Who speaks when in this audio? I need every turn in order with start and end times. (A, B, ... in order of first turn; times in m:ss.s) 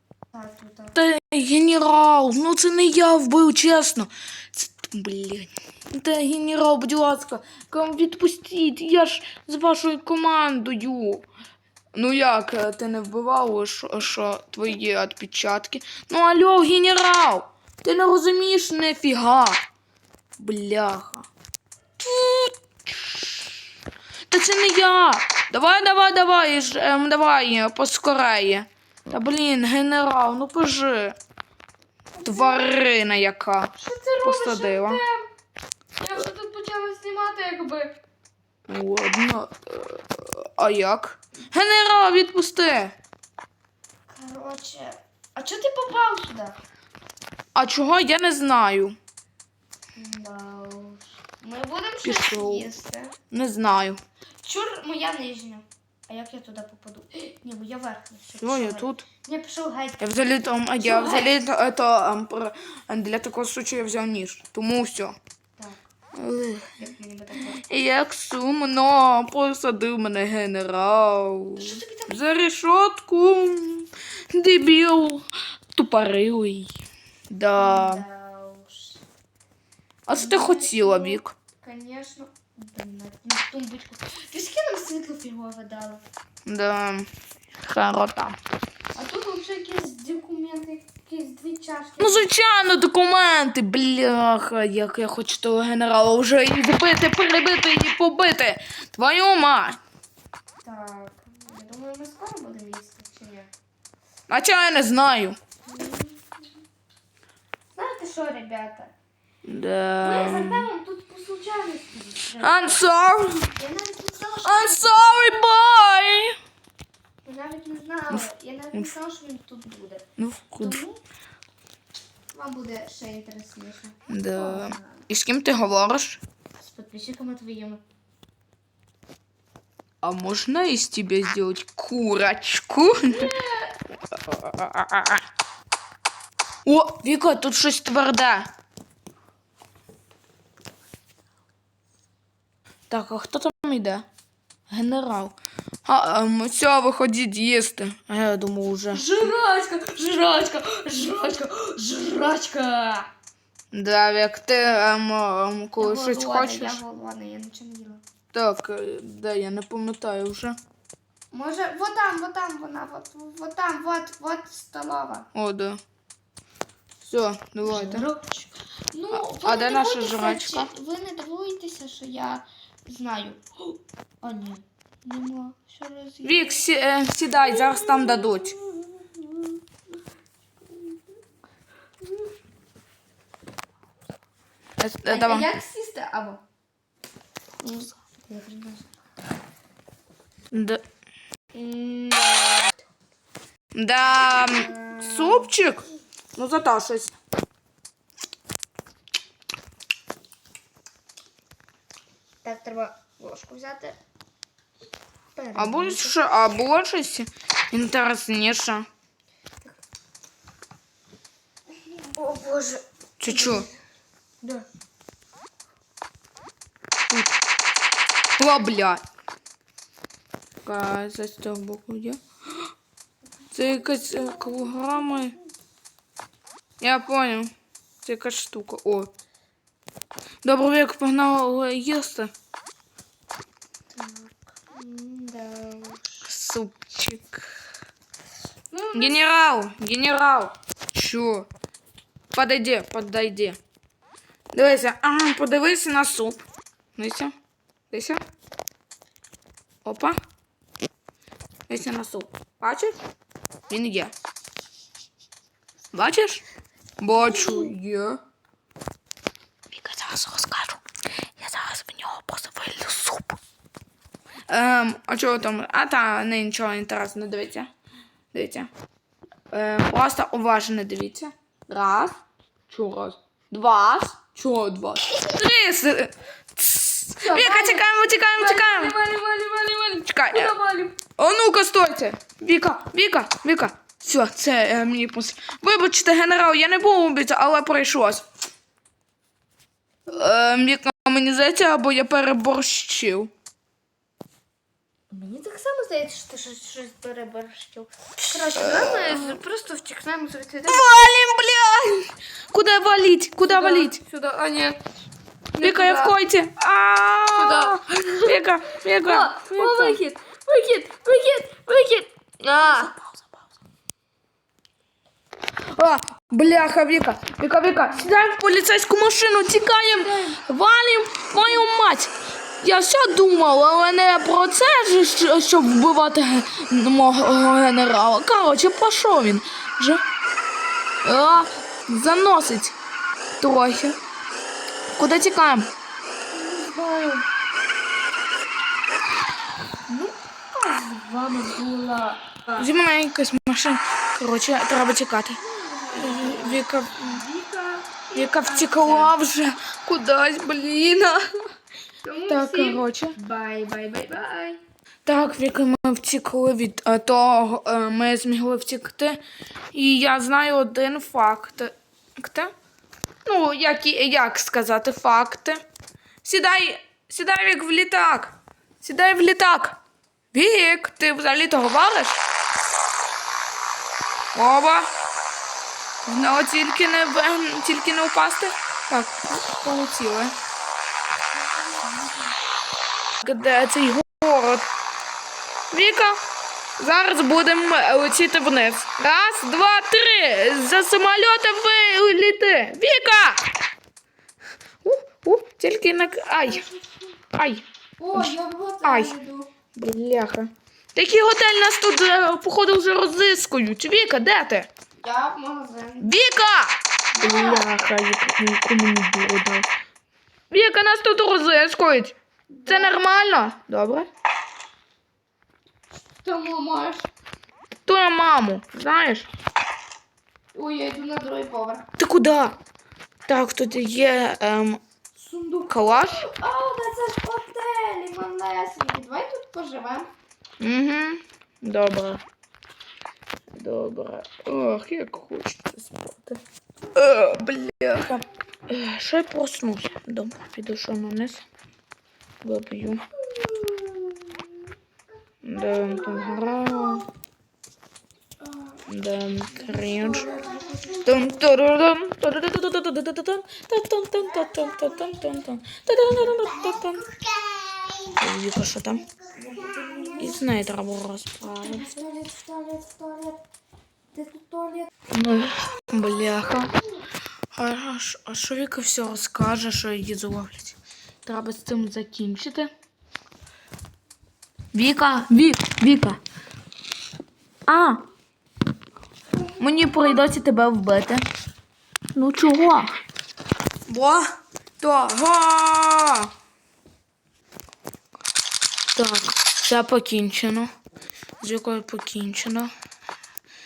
0:00.3-0:01.0 A
0:00.9-0:11.3 B
0:11.9-0:19.6 B
0:20.4-0:21.3 B
0:22.0-0:23.6 B
0:24.3-0:31.2 B
0:32.2-0:32.7 A
0:32.2-0:35.0 B
0:33.8-0:35.3 A
0:36.0-0:38.0 A
0:38.7-0:42.9 B
0:44.1-0:46.6 A
0:47.5-0:49.0 B
0:50.0-0:53.2 A
0:52.0-0:52.7 B
0:53.3-0:54.0 B
0:54.4-1:00.0 A
0:58.4-0:59.0 B
1:00.0-1:05.2 B
1:00.8-1:01.4 A
1:06.1-1:06.8 B
1:06.8-1:07.6 A
1:07.5-1:16.7 B
1:11.6-1:12.2 A
1:17.3-1:18.0 B
1:17.5-1:19.0 A
1:20.1-1:21.3 B
1:20.1-1:26.0 A
1:26.4-1:27.1 B
1:27.6-1:28.4 B
1:28.9-1:32.3 A
1:32.0-1:39.8 B
1:40.6-1:43.5 A
1:44.3-1:45.4 B
1:45.6-1:46.3 A
1:47.7-1:48.9 A
1:49.4-1:50.7 B
1:50.0-1:52.8 A
1:52.4-1:53.5 B
1:53.6-1:55.4 A
1:54.4-1:56.3 B
1:57.2-2:00.1 A
2:00.2-2:00.8 B
2:00.6-2:01.0 A
2:02.3-2:05.0 A
2:04.1-2:06.2 B
2:06.6-2:07.8 A
2:10.0-2:13.3 B
2:13.1-2:13.8 A
2:14.2-2:15.2 B
2:16.6-2:18.5 B
2:22.9-2:24.0 B
2:24.7-2:29.3 B
2:28.9-2:33.1 A
2:33.7-2:36.8 B
2:35.8-2:38.0 A
2:38.3-2:40.6 B
2:41.3-2:45.3 A
2:45.3-2:45.8 B
2:47.0-2:48.0 B
2:47.6-2:53.4 A
2:49.1-2:50.7 B
2:54.2-2:56.6 A
2:56.2-2:58.6 B
2:57.4-2:59.6 A
3:00.7-3:01.0 A
3:04.8-3:05.5 B
3:05.1-3:06.4 A
3:07.6-3:08.9 A
3:10.5-3:10.8 B
3:11.5-3:12.8 A
3:13.7-3:17.1 B
3:14.1-3:15.5 A
3:22.4-3:24.0 A
3:25.3-3:26.2 A
3:25.6-3:28.8 B
3:31.7-3:33.7 A
3:33.2-3:33.7 B
3:38.4-3:39.0 B
3:40.6-3:42.2 B
3:43.5-3:45.3 B
3:43.9-3:45.0 A
3:46.8-3:47.5 B
3:48.0-3:49.1 B
3:50.4-3:52.3 B
3:53.9-3:56.3 A
3:56.2-3:57.5 B
3:58.7-3:59.2 A
3:58.9-4:01.5 B
4:02.3-4:03.6 B
4:04.5-4:06.4 B
4:07.0-4:07.3 B
4:07.9-4:08.2 B
4:09.8-4:10.2 B
4:11.7-4:13.0 B
4:13.7-4:14.1 B
4:15.9-4:16.4 B
4:17.0-4:18.2 B
4:17.4-4:17.7 A
4:19.7-4:20.8 B
4:21.4-4:23.4 B
4:24.5-4:27.7 B
4:28.3-4:28.7 B
4:29.5-4:39.0 B
4:37.2-4:41.0 A
4:40.0-4:40.5 B
4:41.2-4:48.2 B
4:50.1-4:53.3 B
4:55.1-5:01.0 A
4:58.6-4:59.4 B
5:00.6-5:04.0 B
5:03.4-5:04.8 A
5:05.5-5:06.2 A
5:05.6-5:10.0 B
5:07.3-5:08.4 A
5:09.0-5:13.0 A
5:12.6-5:12.9 B
5:15.6-5:30.0 B
5:19.7-5:20.4 A
5:31.0-5:32.8 B
5:33.4-5:34.0 B
5:35.0-5:35.7 B
5:36.3-5:37.2 A
5:39.9-5:42.6 A
5:42.6-5:45.4 B
5:45.4-5:49.1 A
5:45.9-5:47.2 B
5:48.1-5:51.3 B
5:52.0-5:54.6 A
5:52.3-5:53.2 B
5:55.0-5:59.2 B
5:59.7-6:02.5 B
6:03.2-6:05.6 B
6:06.2-6:09.8 B
6:10.3-6:12.2 B
6:14.3-6:14.9 B
6:16.0-6:20.3 B
6:21.7-6:22.1 A
6:23.2-6:24.7 B
6:25.7-6:26.2 B
6:26.8-6:33.4 B
6:34.8-6:36.7 B
6:36.2-6:37.0 A
6:37.3-6:37.6 B
6:38.0-6:39.5 A
6:38.1-6:39.1 B
6:39.8-6:44.7 B
6:45.0-6:46.1 A
6:46.0-6:49.6 B
6:47.2-6:47.6 A
6:50.5-6:52.1 B
6:52.5-6:53.0 A
6:52.7-6:54.1 B
6:56.1-6:57.1 A
6:57.8-6:59.3 B
7:00.5-7:01.9 A
7:02.0-7:02.6 B
7:03.3-7:04.8 B
7:05.1-7:10.1 A
7:05.7-7:06.2 B
7:10.6-7:12.2 B
7:13.5-7:16.4 B
7:16.9-7:21.4 B
7:22.4-7:23.0 B
7:23.2-7:24.6 A
7:25.4-7:27.1 B
7:25.5-7:27.0 A
7:28.9-7:30.3 B
7:29.6-7:31.3 A
7:31.0-7:37.0 B
7:34.4-7:35.3 A
7:36.2-7:38.2 A
7:38.2-7:39.0 B
7:39.2-7:40.4 A
7:40.2-7:42.0 B
7:41.4-7:43.4 A
7:44.1-7:44.9 A
7:45.1-7:46.7 B
7:47.5-7:52.7 B
7:54.7-7:56.2 B
7:57.7-7:58.0 B
7:59.6-8:01.2 B
8:02.1-8:02.9 B
8:03.9-8:04.3 B
8:04.8-8:06.3 B
8:09.0-8:10.7 B
8:11.4-8:12.7 B